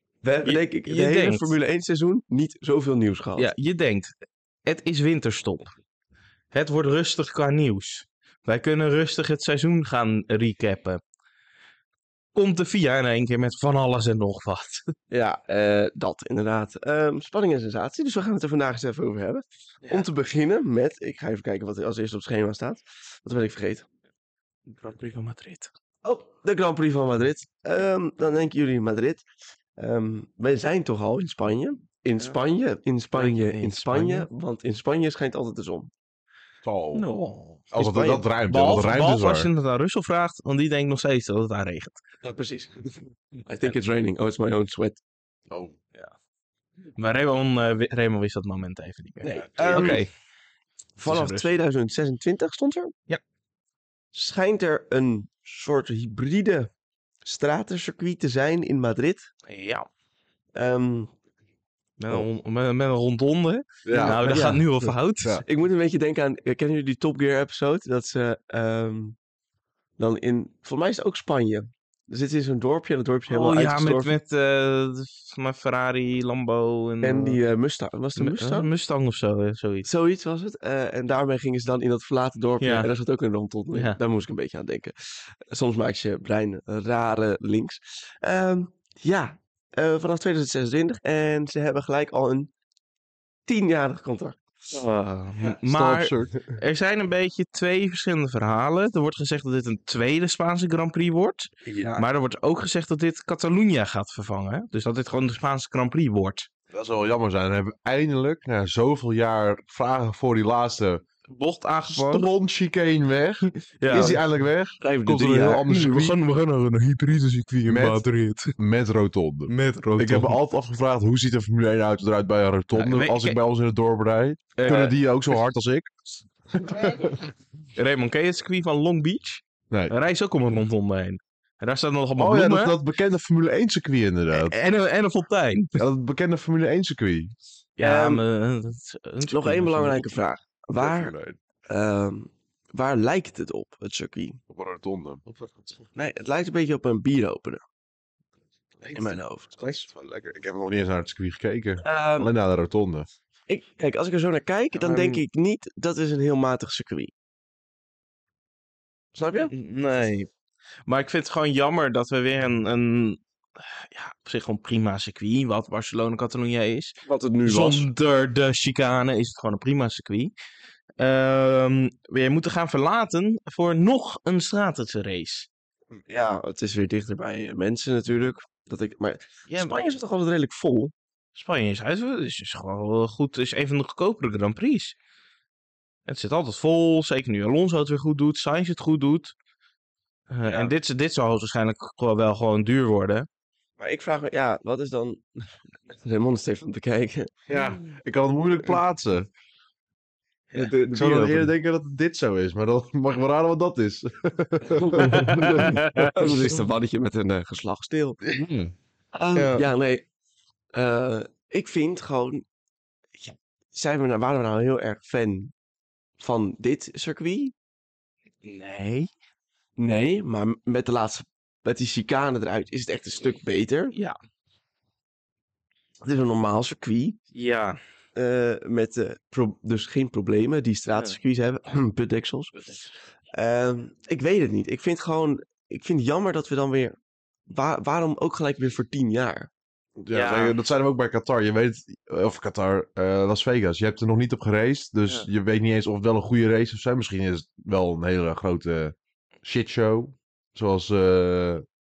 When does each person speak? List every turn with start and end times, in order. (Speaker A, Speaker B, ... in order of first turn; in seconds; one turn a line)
Speaker A: 0.2-3.5
Speaker B: 0.4-1.6
Speaker B: 3.4-4.1
Speaker B: 4.6-5.7
Speaker B: 6.5-11.0
Speaker B: 12.3-14.9
Speaker A: 15.1-23.9
Speaker B: 24.7-25.7
Speaker A: 26.0-29.2
Speaker A: 29.8-35.9
Speaker B: 33.1-34.3
Speaker C: 36.6-37.1
Speaker B: 36.9-37.7
Speaker C: 37.7-39.5
Speaker A: 37.8-38.2
Speaker B: 38.5-42.0
Speaker A: 42.2-45.0
Speaker C: 45.5-45.8
Speaker B: 47.0-50.1
Speaker A: 49.2-50.0
Speaker C: 49.6-50.0
Speaker A: 51.0-52.9
Speaker B: 51.0-51.5
Speaker A: 54.1-56.7
Speaker A: 57.2-59.3
Speaker B: 59.5-59.9
Speaker A: 60.5-61.1
Speaker B: 62.0-65.4
Speaker C: 63.8-64.3
Speaker A: 63.9-69.2
Speaker A: 70.0-74.1
Speaker B: 73.3-77.4
Speaker A: 77.0-78.7
Speaker B: 78.2-79.9
Speaker A: 79.8-92.5
Speaker B: 82.6-82.9
Speaker B: 83.7-84.0
Speaker A: 93.5-94.8
Speaker B: 94.7-106.5
Speaker C: 95.6-96.4
Speaker A: 101.6-102.0
Speaker C: 106.7-111.0
Speaker B: 111.3-112.3
Speaker C: 111.9-116.2
Speaker B: 113.8-114.2
Speaker A: 113.9-114.2
Speaker A: 114.8-115.7
Speaker B: 115.7-118.5
Speaker C: 117.6-118.0
Speaker C: 118.5-126.0
Speaker B: 119.5-120.4
Speaker B: 122.7-123.4
Speaker B: 124.6-124.9
Speaker A: 124.6-124.9
Speaker C: 126.5-127.2
Speaker B: 127.7-132.8
Speaker C: 132.2-134.5
Speaker B: 134.3-135.8
Speaker C: 135.8-137.3
Speaker B: 137.8-140.1
Speaker A: 137.8-138.2
Speaker A: 139.3-141.1
Speaker C: 140.8-141.4
Speaker A: 141.7-144.4
Speaker C: 144.5-145.2
Speaker A: 145.9-147.6
Speaker C: 148.8-153.1
Speaker A: 148.9-149.6
Speaker A: 151.8-152.3
Speaker A: 153.5-157.1
Speaker B: 154.8-155.2
Speaker A: 159.1-159.5
Speaker B: 159.5-160.3
Speaker B: 160.8-170.3
Speaker A: 167.1-167.9
Speaker B: 171.0-175.5
Speaker A: 175.9-180.9
Speaker B: 179.5-179.8
Speaker B: 181.3-184.9
Speaker B: 186.1-189.3
Speaker B: 190.3-193.3
Speaker A: 190.4-190.7
Speaker A: 193.8-197.3
Speaker C: 197.5-199.3
Speaker A: 200.5-201.5
Speaker C: 200.6-206.3
Speaker A: 204.7-208.2
Speaker B: 205.0-206.1
Speaker B: 208.3-208.7
Speaker A: 209.1-210.1
Speaker B: 209.3-209.7
Speaker A: 210.7-212.4
Speaker A: 213.2-215.5
Speaker A: 216.2-217.5
Speaker B: 218.4-219.1
Speaker A: 219.8-223.9
Speaker A: 226.0-227.2
Speaker B: 227.3-227.8
Speaker A: 228.1-232.8
Speaker A: 233.3-237.0
Speaker A: 237.5-239.5
Speaker C: 240.0-251.6
Speaker B: 240.1-240.6